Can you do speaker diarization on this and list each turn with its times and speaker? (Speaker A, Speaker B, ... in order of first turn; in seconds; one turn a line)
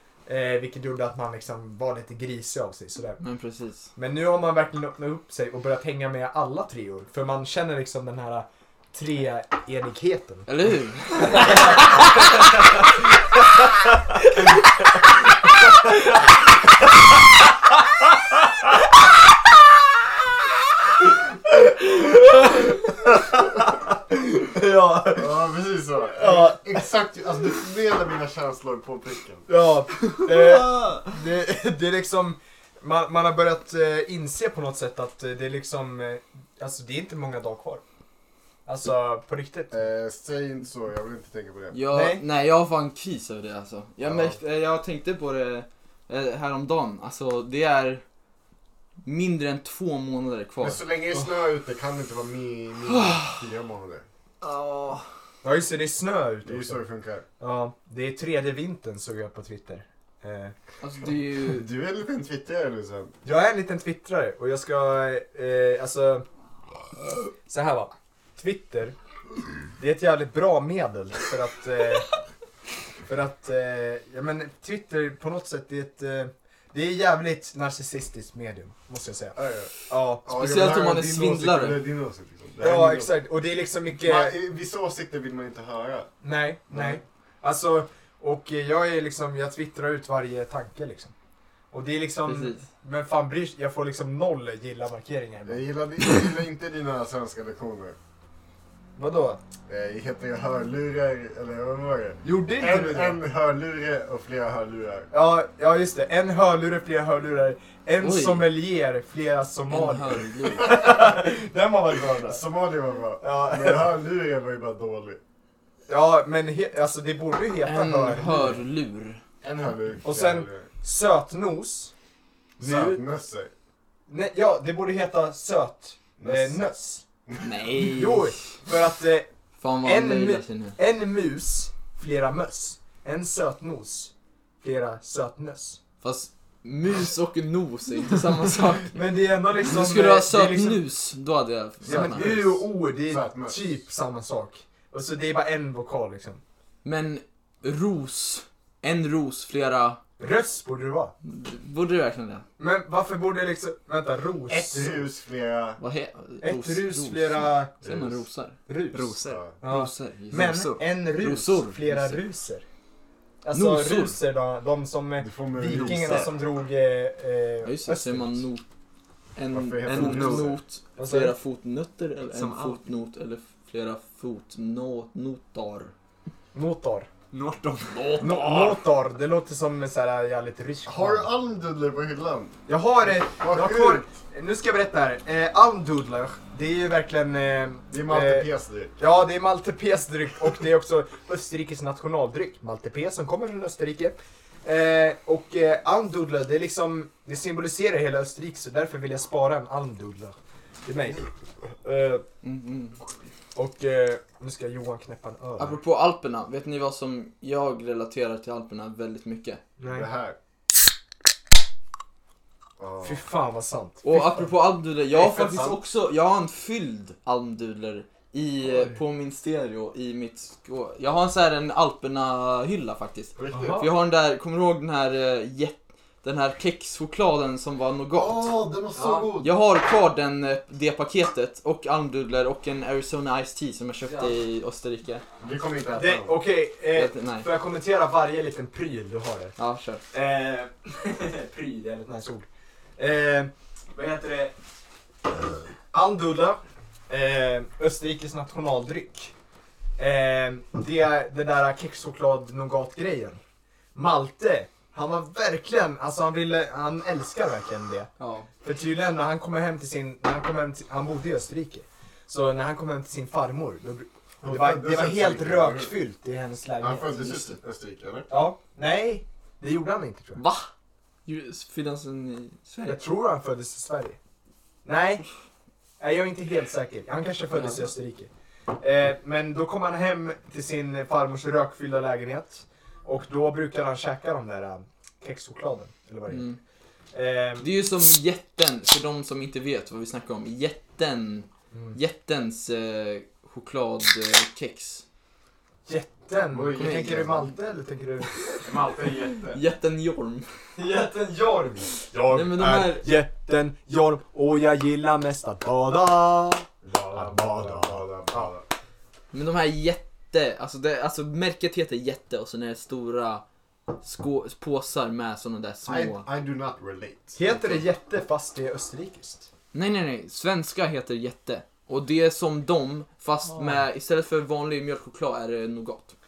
Speaker A: 0.2-3.2
Speaker B: 3.2-3.9
Speaker A: 3.9-10.5
Speaker B: 10.5-12.5
Speaker A: 11.2-12.6
Speaker A: 21.4-25.3
Speaker C: 25.1-29.5
Speaker A: 26.1-26.9
Speaker A: 29.5-37.8
Speaker D: 30.3-31.0
Speaker A: 38.6-39.7
Speaker C: 39.7-41.8
Speaker B: 41.7-48.0
Speaker A: 41.9-42.2
Speaker B: 49.0-51.3
Speaker C: 50.6-54.0
Speaker B: 52.9-53.3
Speaker B: 54.4-55.0
Speaker A: 55.4-56.8
Speaker C: 56.4-57.2
Speaker A: 57.4-60.5
Speaker B: 60.8-61.7
Speaker C: 61.4-63.1
Speaker A: 63.2-66.2
Speaker A: 67.4-69.0
Speaker A: 69.8-72.1
Speaker A: 73.1-80.9
Speaker C: 79.3-79.7
Speaker C: 80.2-83.2
Speaker B: 80.3-81.8
Speaker A: 82.6-84.4
Speaker C: 84.0-86.1
Speaker A: 86.2-91.1
Speaker C: 86.7-87.0
Speaker A: 91.7-95.6
Speaker B: 92.2-92.6
Speaker C: 95.5-98.0
Speaker A: 99.0-99.4
Speaker C: 99.7-105.1
Speaker A: 102.2-103.2
Speaker A: 105.1-112.4
Speaker B: 108.0-108.5
Speaker B: 109.7-110.8
Speaker C: 112.1-115.2
Speaker A: 113.2-113.9
Speaker A: 115.9-118.5
Speaker B: 117.6-119.2
Speaker C: 119.4-120.7
Speaker A: 120.0-121.9
Speaker A: 122.6-123.0
Speaker C: 122.6-123.5
Speaker A: 124.1-127.0
Speaker C: 126.2-126.6
Speaker B: 127.4-128.3
Speaker A: 127.8-129.3
Speaker B: 129.6-130.8
Speaker A: 129.8-135.8
Speaker B: 136.0-138.9
Speaker A: 138.9-140.8
Speaker B: 139.6-142.3
Speaker C: 141.8-143.6
Speaker A: 141.9-146.4
Speaker B: 146.8-150.0
Speaker A: 150.2-151.1
Speaker B: 151.2-152.4
Speaker A: 152.6-155.1
Speaker C: 154.5-155.8
Speaker B: 155.8-158.6
Speaker A: 156.4-157.7
Speaker C: 157.8-158.2
Speaker A: 158.7-162.6
Speaker D: 158.9-159.4
Speaker C: 159.2-159.5
Speaker B: 159.6-160.6
Speaker D: 160.3-160.8
Speaker B: 161.1-162.2
Speaker A: 163.4-168.4
Speaker B: 163.5-164.2
Speaker C: 165.2-166.3
Speaker B: 165.8-166.3
Speaker B: 167.6-168.6
Speaker B: 169.3-175.9
Speaker C: 169.5-170.5
Speaker D: 169.8-170.6
Speaker A: 171.0-171.3
Speaker D: 172.3-172.8
Speaker A: 176.5-177.1
Speaker D: 177.3-178.2
Speaker B: 177.9-178.8
Speaker A: 178.2-181.3
Speaker C: 180.8-182.6
Speaker A: 182.7-201.3
Speaker C: 183.3-184.1
Speaker C: 187.9-188.9
Speaker A: 201.8-202.2
Speaker B: 202.4-203.0
Speaker A: 203.5-205.8
Speaker B: 205.6-209.6
Speaker A: 209.8-210.1
Speaker C: 209.8-210.3
Speaker C: 212.8-213.2
Speaker A: 213.0-214.5
Speaker B: 214.0-235.2
Speaker C: 215.1-215.8
Speaker C: 223.3-223.8
Speaker A: 223.5-223.9
Speaker C: 228.1-229.5
Speaker C: 235.4-236.3
Speaker A: 235.9-239.5
Speaker B: 236.9-237.5
Speaker B: 239.6-240.0
Speaker A: 240.1-242.4
Speaker A: 243.0-244.5
Speaker A: 245.9-249.3
Speaker A: 250.0-253.4
Speaker A: 253.9-258.1
Speaker B: 258.2-258.5
Speaker A: 258.6-267.6
Speaker C: 264.4-265.9
Speaker C: 266.8-268.3
Speaker A: 268.3-270.4
Speaker B: 270.4-270.7
Speaker B: 271.2-273.0
Speaker A: 272.9-274.2
Speaker A: 274.8-275.2
Speaker A: 276.0-286.5
Speaker B: 277.5-277.8
Speaker B: 286.3-286.6
Speaker A: 287.1-287.7
Speaker B: 287.6-295.0
Speaker A: 291.7-292.0
Speaker A: 295.9-298.4
Speaker C: 296.5-297.5
Speaker B: 296.8-297.1
Speaker C: 298.7-299.4
Speaker B: 299.4-300.5
Speaker A: 300.8-308.5
Speaker B: 302.3-303.1
Speaker C: 306.8-308.6
Speaker B: 309.3-313.4
Speaker B: 314.0-316.3
Speaker C: 315.8-317.4
Speaker A: 317.4-319.5
Speaker B: 317.5-317.8
Speaker B: 319.7-326.1
Speaker A: 323.5-323.8